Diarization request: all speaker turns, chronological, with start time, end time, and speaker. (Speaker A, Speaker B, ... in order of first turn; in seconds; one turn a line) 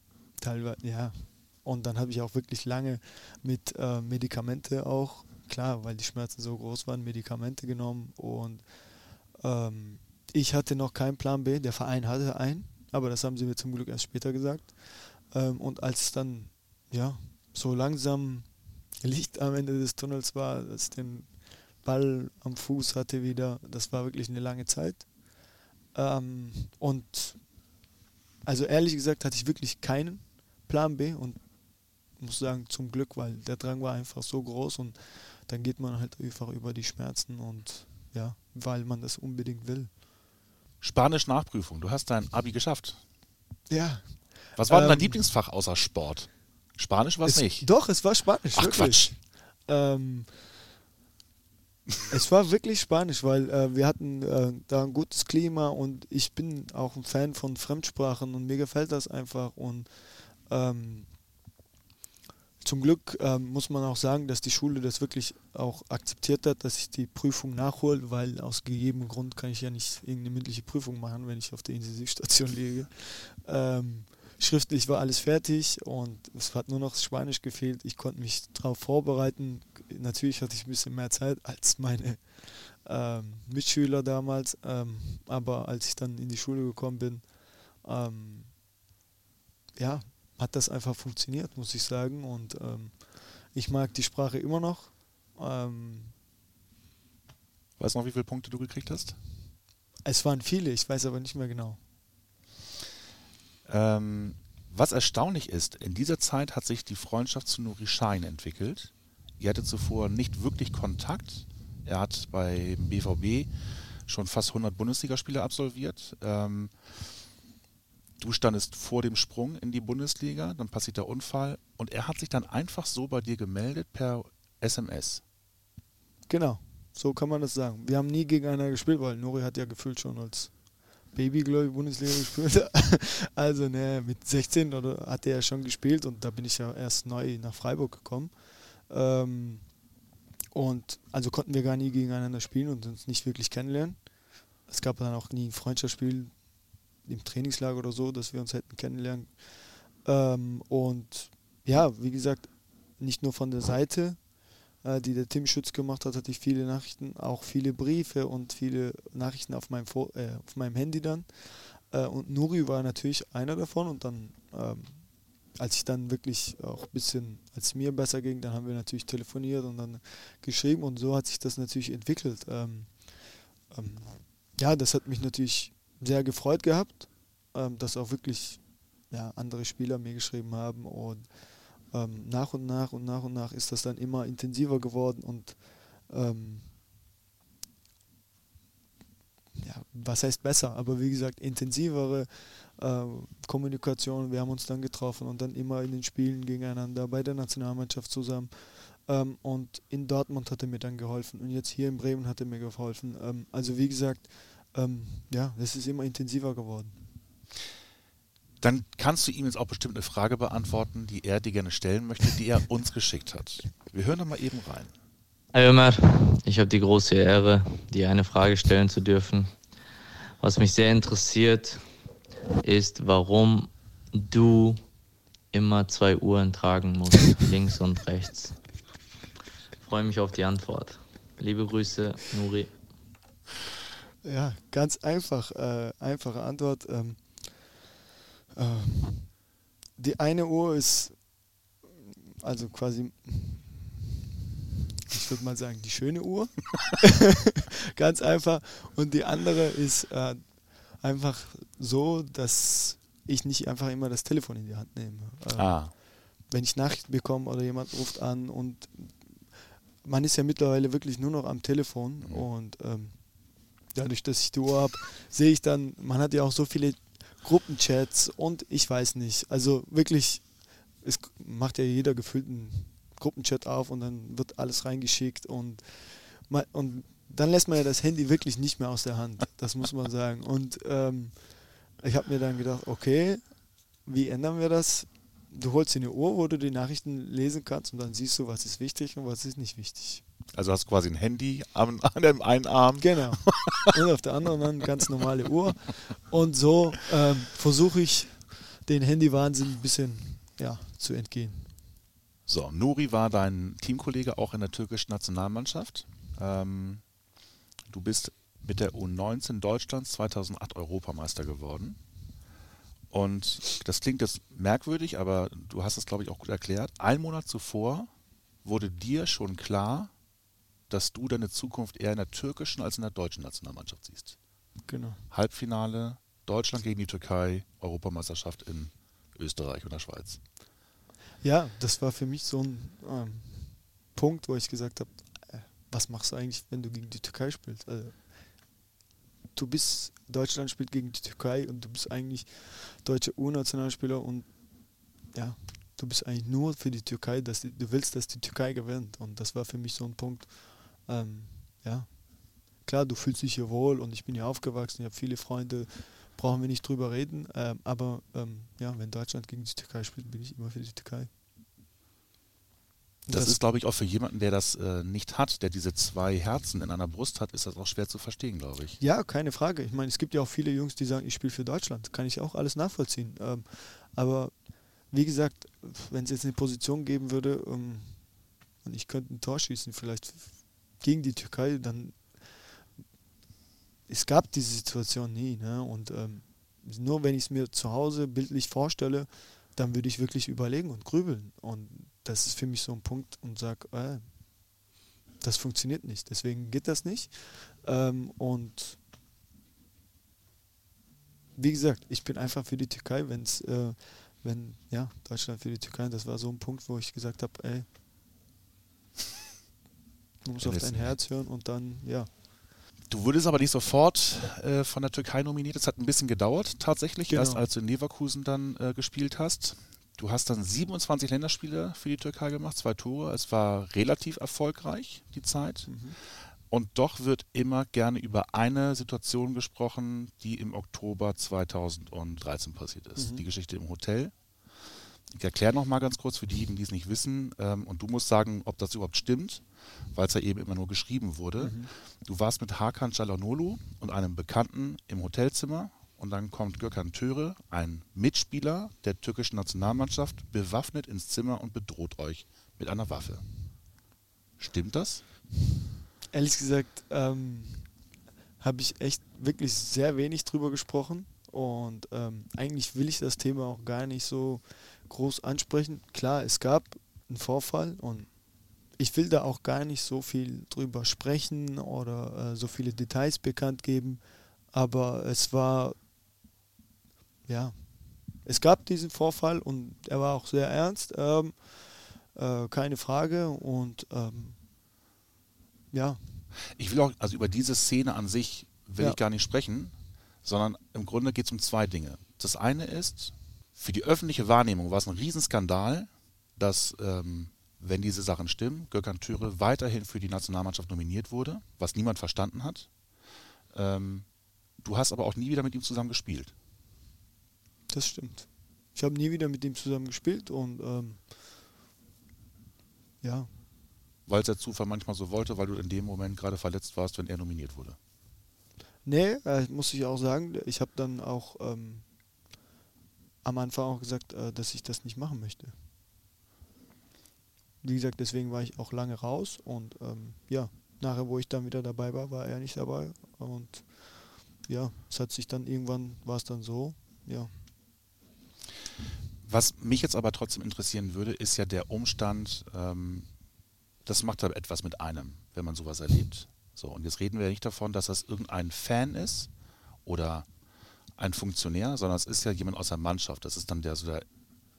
Speaker A: 0.4-8.7
Speaker A: 9.4-21.3
Speaker A: 21.8-25.1
Speaker A: 25.9-27.4
Speaker A: 28.5-31.4
Speaker A: 32.2-39.9
Speaker B: 40.8-43.0
Speaker A: 43.7-45.2
Speaker B: 44.6-48.0
Speaker A: 47.3-50.3
Speaker B: 48.5-49.1
Speaker A: 52.1-61.1
Speaker A: 62.6-87.3
Speaker A: 87.8-88.5
Speaker A: 89.8-96.1
Speaker B: 97.8-99.2
Speaker A: 100.0-101.8
Speaker B: 103.7-113.5
Speaker B: 114.1-116.7
Speaker B: 118.2-125.2
Speaker A: 126.3-130.6
Speaker A: 131.1-139.7
Speaker A: 140.5-144.0
Speaker A: 144.7-146.3
Speaker A: 147.1-154.2
Speaker A: 154.8-165.1
Speaker A: 165.6-173.2
Speaker A: 173.7-181.3
Speaker A: 181.9-186.7
Speaker A: 189.6-207.0
Speaker B: 208.6-214.9
Speaker C: 215.5-219.5
Speaker C: 220.4-221.8
Speaker C: 222.6-224.8
Speaker C: 225.5-228.6
Speaker C: 229.8-232.7
Speaker A: 234.2-237.8
Speaker A: 238.6-239.3
Speaker A: 240.0-241.2
Speaker A: 242.0-243.9
Speaker A: 245.1-259.4
Speaker B: 255.6-255.9
Speaker A: 260.0-263.2
Speaker A: 263.9-270.5
Speaker A: 271.0-281.4
Speaker A: 282.0-283.4
Speaker A: 284.1-290.2
Speaker B: 290.5-293.9
Speaker A: 293.0-301.7
Speaker B: 302.5-307.0
Speaker B: 307.9-312.0
Speaker B: 313.1-318.1
Speaker B: 318.6-320.1
Speaker B: 320.9-324.4
Speaker A: 324.9-325.2
Speaker B: 325.3-330.4
Speaker A: 331.4-338.2
Speaker A: 339.6-344.5
Speaker A: 345.3-352.2
Speaker A: 352.8-361.3
Speaker A: 363.3-363.6
Speaker B: 363.3-369.0
Speaker A: 369.0-374.5
Speaker A: 375.1-378.2
Speaker A: 378.8-382.3
Speaker A: 384.1-394.4
Speaker A: 395.4-399.0
Speaker A: 401.6-407.9
Speaker A: 410.4-412.3
Speaker B: 410.6-411.2
Speaker B: 413.1-425.9
Speaker A: 417.3-417.6
Speaker A: 425.9-426.2
Speaker B: 426.7-434.3
Speaker A: 433.2-433.4
Speaker B: 435.3-439.6
Speaker B: 440.1-453.4
Speaker A: 441.6-441.9
Speaker B: 454.6-455.2
Speaker A: 456.3-457.9
Speaker A: 458.6-468.3
Speaker A: 469.0-476.0
Speaker A: 477.5-484.6
Speaker A: 485.9-486.2
Speaker B: 486.8-502.9
Speaker B: 503.7-504.3
Speaker B: 504.8-506.5
Speaker A: 507.9-511.3
Speaker A: 513.2-513.5
Speaker B: 514.3-518.0
Speaker A: 519.0-522.1
Speaker A: 523.4-525.8
Speaker A: 527.8-537.5
Speaker B: 539.4-543.3
Speaker B: 544.1-549.5
Speaker B: 550.1-550.5
Speaker B: 551.2-554.3